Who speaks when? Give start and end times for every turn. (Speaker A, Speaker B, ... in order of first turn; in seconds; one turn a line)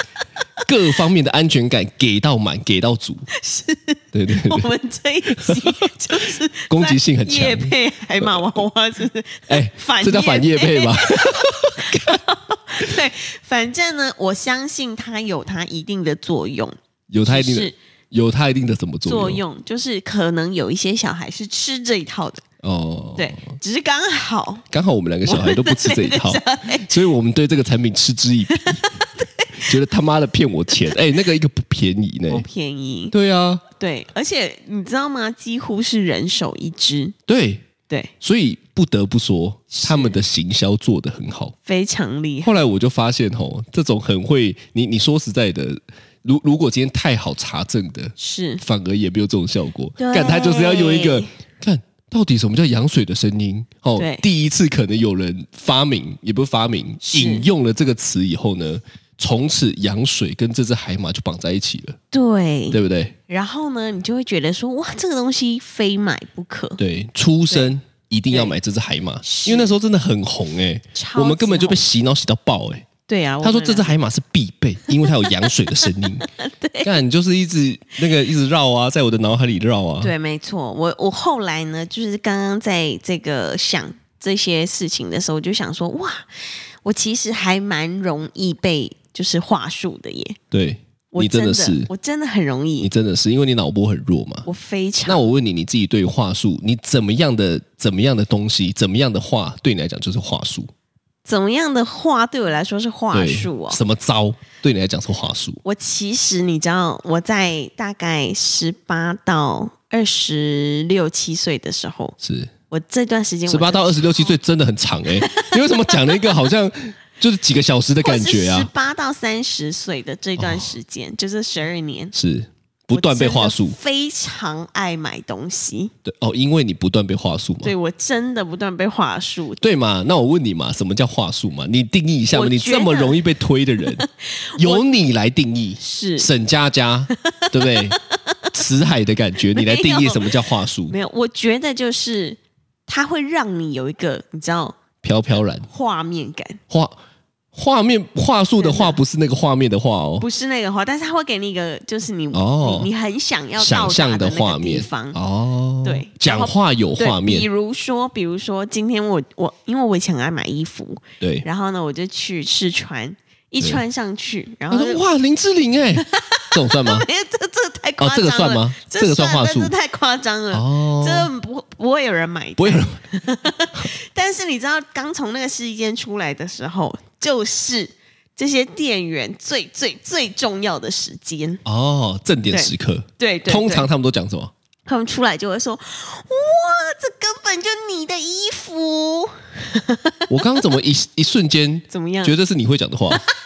Speaker A: 0.7-3.3
Speaker B: 3.3-16.8
Speaker A: 4.1-4.7
Speaker A: 5.3-5.7
Speaker A: 6.7-8.4
Speaker A: 9.5-12.2
Speaker A: 17.1-19.4
Speaker B: 17.3-17.8
Speaker B: 19.1-22.4
Speaker A: 22.6-23.5
Speaker B: 23.2-24.7
Speaker A: 24.7-28.9
Speaker B: 25.2-26.9
Speaker B: 28.5-29.7
Speaker A: 29.6-32.5
Speaker B: 32.3-33.1
Speaker A: 33.1-33.6
Speaker B: 33.8-37.1
Speaker A: 37.3-37.6
Speaker A: 38.2-41.5
Speaker B: 39.7-40.2
Speaker B: 41.7-42.5
Speaker A: 42.4-62.0
Speaker B: 48.2-48.6
Speaker B: 50.0-51.3
Speaker B: 54.0-54.2
Speaker B: 57.0-57.5
Speaker B: 62.1-66.8
Speaker A: 62.7-63.1
Speaker A: 66.8-72.9
Speaker B: 69.2-69.7
Speaker B: 71.0-71.8
Speaker B: 73.1-73.9
Speaker A: 73.4-76.3
Speaker B: 75.0-76.9
Speaker A: 76.8-80.1
Speaker B: 80.0-90.4
Speaker A: 90.5-91.9
Speaker B: 91.1-92.9
Speaker A: 92.8-94.5
Speaker B: 94.5-95.2
Speaker A: 95.1-100.7
Speaker B: 101.3-103.8
Speaker A: 103.1-105.6
Speaker B: 105.6-112.2
Speaker A: 112.2-112.5
Speaker B: 112.7-114.3
Speaker A: 113.5-118.7
Speaker B: 115.2-116.3
Speaker B: 118.0-122.1
Speaker A: 120.4-120.7
Speaker A: 122.1-123.8
Speaker B: 122.9-125.9
Speaker A: 126.0-127.7
Speaker B: 127.6-129.6
Speaker A: 129.6-138.0
Speaker B: 132.3-133.2
Speaker B: 133.8-134.8
Speaker B: 135.8-136.3
Speaker B: 137.2-138.4
Speaker A: 138.5-140.9
Speaker B: 139.5-144.8
Speaker A: 145.0-145.7
Speaker B: 145.6-146.6
Speaker A: 146.7-147.0
Speaker A: 147.5-150.3
Speaker B: 148.6-149.0
Speaker B: 150.2-155.2
Speaker A: 152.3-152.9
Speaker A: 153.6-157.5
Speaker B: 155.8-165.0
Speaker A: 161.2-161.5
Speaker A: 164.7-167.1
Speaker B: 166.0-181.6
Speaker A: 168.0-169.7
Speaker A: 170.5-171.3
Speaker A: 172.6-173.0
Speaker A: 181.7-184.5
Speaker B: 182.5-183.9
Speaker B: 184.9-190.3
Speaker A: 190.3-193.2
Speaker B: 191.9-192.3